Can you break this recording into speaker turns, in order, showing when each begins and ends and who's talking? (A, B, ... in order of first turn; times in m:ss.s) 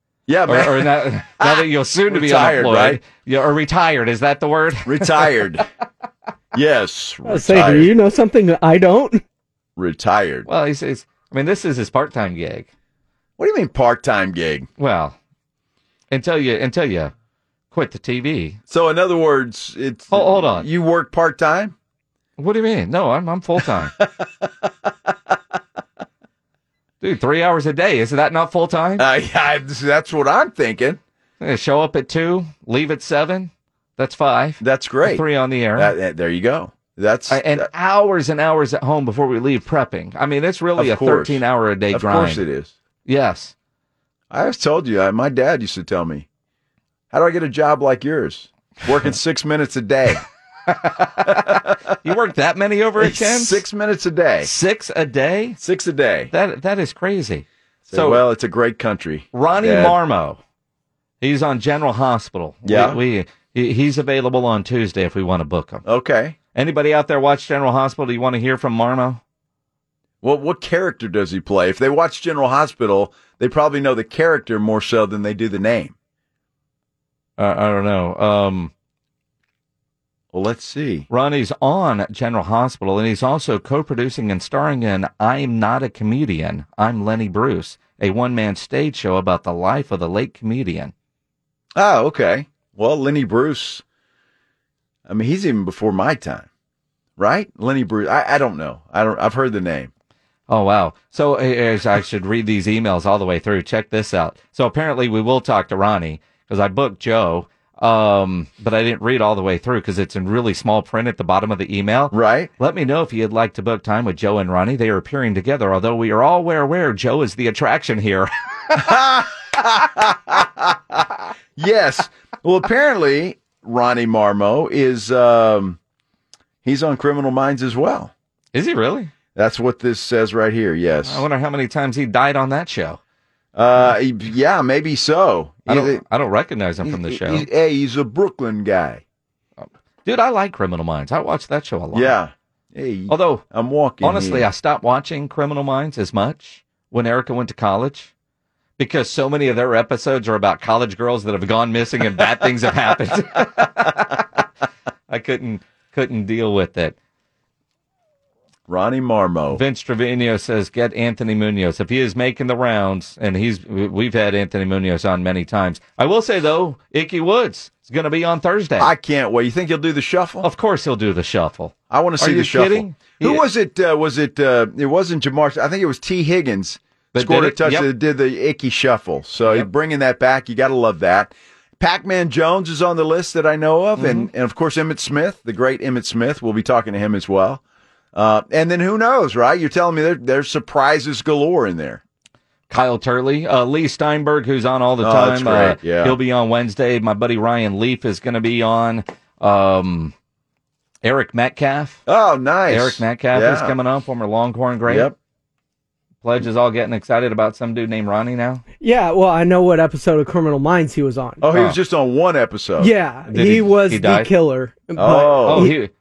0:00.3-0:03.0 A
0:00.5-0:05.4 B
0:04.8-0:05.6 A
0:06.5-0:07.9 A
0:07.3-0:09.2 C
0:09.8-0:10.5 A
0:10.4-0:12.7 B
0:13.4-0:14.7 A
0:14.8-0:15.2 B
0:16.1-0:17.1 B
0:17.7-0:18.6 B
0:18.7-0:21.7 A
0:20.1-0:20.7 B
0:22.4-0:23.9 B
0:23.9-0:24.9 A
0:27.0-0:29.0 B
0:29.0-0:31.0 A
0:31.4-0:35.9 B
0:34.6-0:37.7 A
0:37.3-0:42.4 B
0:40.8-0:42.7 A
0:43.0-0:43.5 B
0:44.3-0:46.3 A
0:47.1-0:50.2 A
0:50.7-0:53.6 B
0:51.3-0:51.8 A
0:53.0-0:54.5 A
0:54.4-0:55.6 B
0:55.6-0:56.3 A
0:56.3-0:58.2 B
0:57.9-1:00.0 A
0:59.3-1:00.4 B
1:01.2-1:05.8 B
1:02.6-1:03.0 A
1:05.8-1:06.4 A
1:06.5-1:09.2 B
1:10.2-1:16.0 A
1:17.4-1:18.7 B
1:20.3-1:21.1 A
1:21.1-1:30.9 B
1:31.7-1:33.8 A
1:35.1-1:36.5 A
1:37.2-1:39.9 A
1:40.5-1:58.9 B
1:52.1-1:52.5 A
1:58.7-2:05.8 A
2:06.6-2:08.1 A
2:08.5-2:09.1 B
2:09.3-2:11.2 A
2:11.0-2:13.0 B
2:13.6-2:16.0 A
2:15.7-2:17.5 B
2:16.8-2:19.0 A
2:19.6-2:22.1 B
2:21.9-2:24.5 A
2:23.1-2:23.4 B
2:24.0-2:28.1 B
2:28.8-2:34.3 B
2:35.1-2:37.0 B
2:38.7-2:39.6 A
2:39.5-2:48.9 B
2:48.8-2:50.5 A
2:50.4-2:53.4 B
2:51.9-3:07.6 A
2:57.1-2:57.9 B
3:04.0-3:04.3 B
3:08.1-3:12.0 A
3:12.7-3:20.1 B
3:15.0-3:16.2 A
3:21.0-3:22.0 B
3:22.0-3:23.7 A
3:22.7-3:25.1 B
3:24.9-3:25.1 A
3:26.2-3:28.6 B
3:28.8-3:31.4 C
3:31.4-3:32.9 A
3:31.5-3:31.8 B
3:32.8-3:35.8 C
3:33.3-3:34.3 B
3:35.0-3:35.7 A
3:35.1-3:35.9 B